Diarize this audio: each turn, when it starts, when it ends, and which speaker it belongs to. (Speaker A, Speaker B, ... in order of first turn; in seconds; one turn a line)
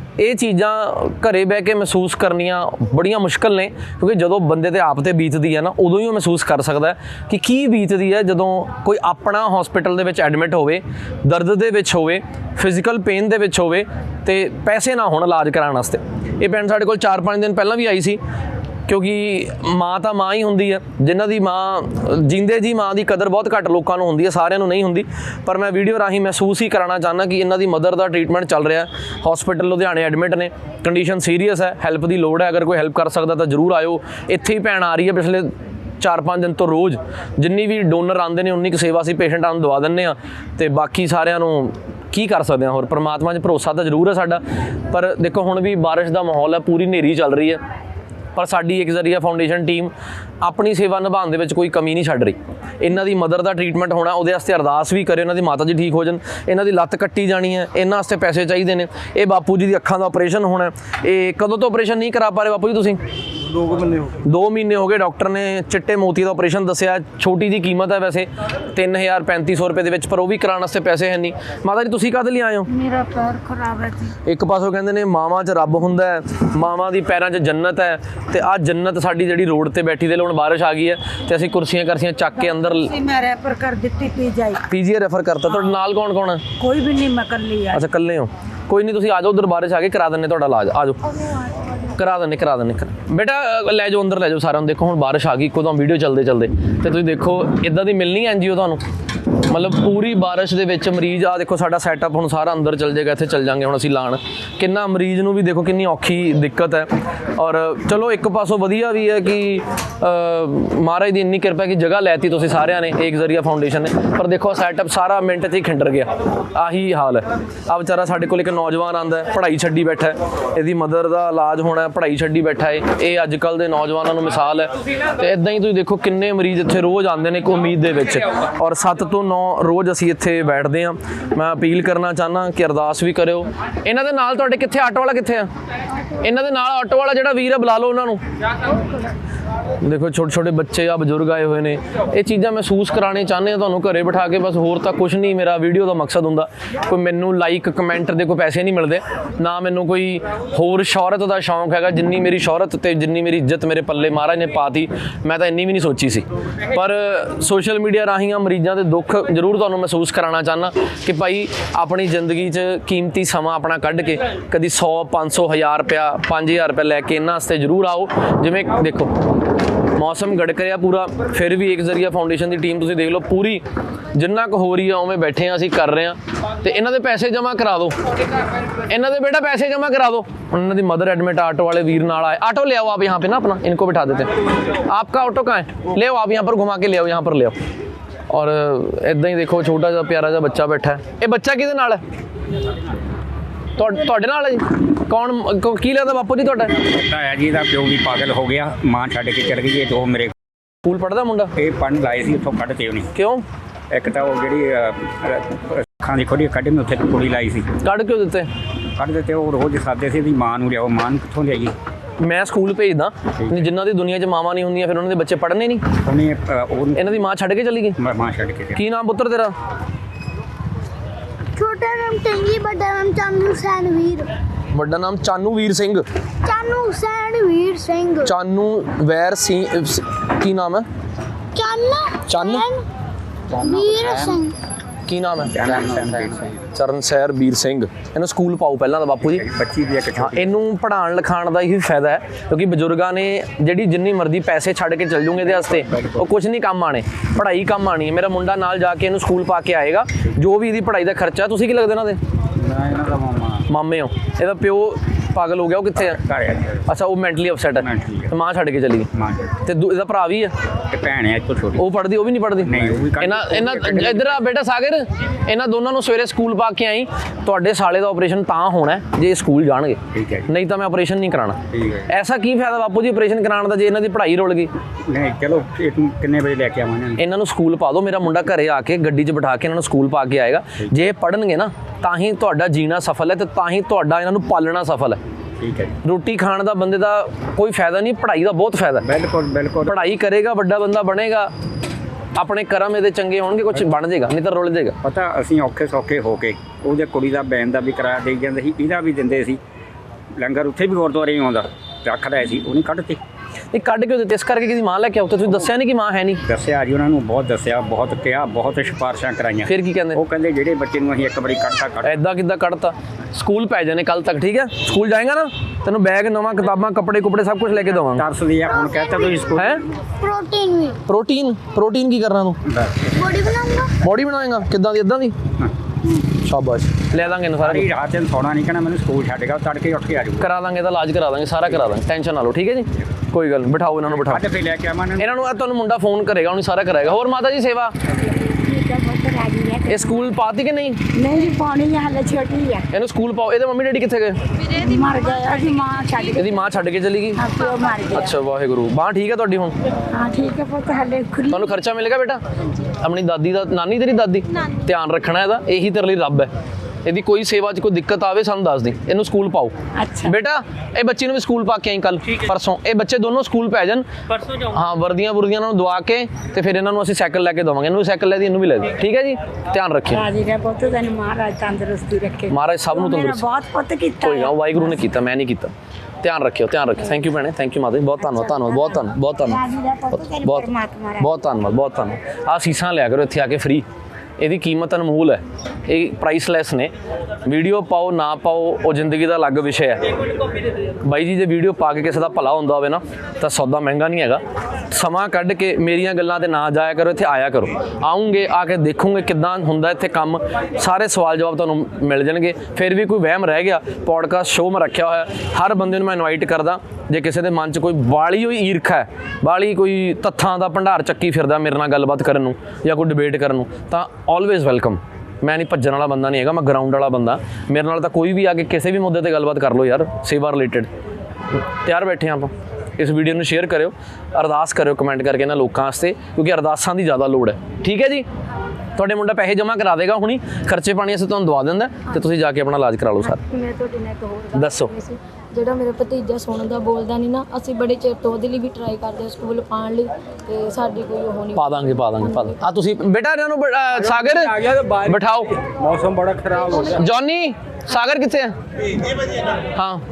Speaker A: 0.2-18.2
Speaker A: 18.9-47.6
Speaker A: 48.4-63.0
Speaker A: 64.0-72.7
Speaker B: 72.7-74.1
Speaker A: 74.2-83.0
Speaker B: 82.8-84.6
Speaker A: 84.6-86.5
Speaker B: 86.6-87.8
Speaker A: 87.7-91.0
Speaker A: 91.8-98.8
Speaker A: 99.4-135.5
Speaker A: 136.2-138.2
Speaker A: 139.8-169.1
Speaker A: 169.9-178.0
Speaker A: 178.9-187.6
Speaker A: 188.3-192.0
Speaker A: 193.8-196.7
Speaker C: 196.8-200.3
Speaker A: 200.8-201.5
Speaker C: 201.6-203.1
Speaker A: 203.1-203.4
Speaker C: 203.9-207.8
Speaker A: 207.8-208.5
Speaker C: 208.9-211.8
Speaker A: 212.2-215.9
Speaker C: 216.0-217.1
Speaker A: 217.0-218.0
Speaker C: 218.0-218.8
Speaker A: 218.8-219.5
Speaker D: 221.6-224.3
Speaker A: 224.7-226.0
Speaker D: 226.4-228.3
Speaker A: 228.2-230.9
Speaker D: 231.6-232.8
Speaker A: 232.3-232.7
Speaker D: 233.5-234.6
Speaker C: 233.7-234.1
Speaker A: 235.1-235.9
Speaker C: 235.5-236.6
Speaker A: 236.6-239.4
Speaker C: 239.2-240.5
Speaker A: 240.2-252.2
Speaker C: 245.6-246.3
Speaker C: 252.6-253.7
Speaker A: 253.7-256.2
Speaker C: 256.0-256.8
Speaker A: 256.9-259.1
Speaker C: 257.8-258.3
Speaker C: 259.1-259.6
Speaker A: 259.6-260.5
Speaker C: 260.9-261.8
Speaker A: 261.8-274.7
Speaker C: 262.6-264.4
Speaker C: 270.1-270.5
Speaker C: 271.7-272.1
Speaker C: 275.1-277.2
Speaker A: 277.2-285.2
Speaker C: 285.6-286.0
Speaker A: 286.0-289.1
Speaker C: 289.0-290.1
Speaker A: 289.9-291.5
Speaker A: 292.4-295.0
Speaker C: 295.0-299.6
Speaker C: 300.4-303.2
Speaker A: 303.7-306.4
Speaker C: 306.4-312.1
Speaker A: 309.7-310.2
Speaker A: 312.0-318.2
Speaker C: 317.9-319.8
Speaker A: 319.6-319.8
Speaker D: 320.0-321.0
Speaker A: 321.1-322.6
Speaker C: 322.7-323.1
Speaker D: 323.1-323.9
Speaker A: 324.0-325.4
Speaker A: 326.4-327.9
Speaker C: 327.6-330.5
Speaker A: 330.4-334.4
Speaker C: 334.1-335.3
Speaker A: 335.2-337.9
Speaker B: 338.2-340.2
Speaker A: 339.9-341.0
Speaker B: 341.1-342.9
Speaker A: 342.9-344.4
Speaker B: 344.7-346.5
Speaker A: 346.3-347.5
Speaker B: 347.4-348.4
Speaker A: 348.1-349.8
Speaker B: 350.1-351.8
Speaker A: 351.5-356.5
Speaker A: 357.1-370.2
Speaker B: 360.0-360.4
Speaker B: 370.1-374.8
Speaker A: 372.5-373.4
Speaker A: 374.2-379.6
Speaker B: 378.2-381.3
Speaker A: 380.2-383.9
Speaker A: 384.4-386.9
Speaker A: 387.4-390.1
Speaker A: 391.0-420.9
Speaker A: 421.6-428.3
Speaker A: 429.0-433.4
Speaker E: 433.3-442.6
Speaker A: 434.5-434.9
Speaker A: 441.5-445.5
Speaker C: 444.2-446.9
Speaker A: 446.9-448.5
Speaker A: 449.7-450.0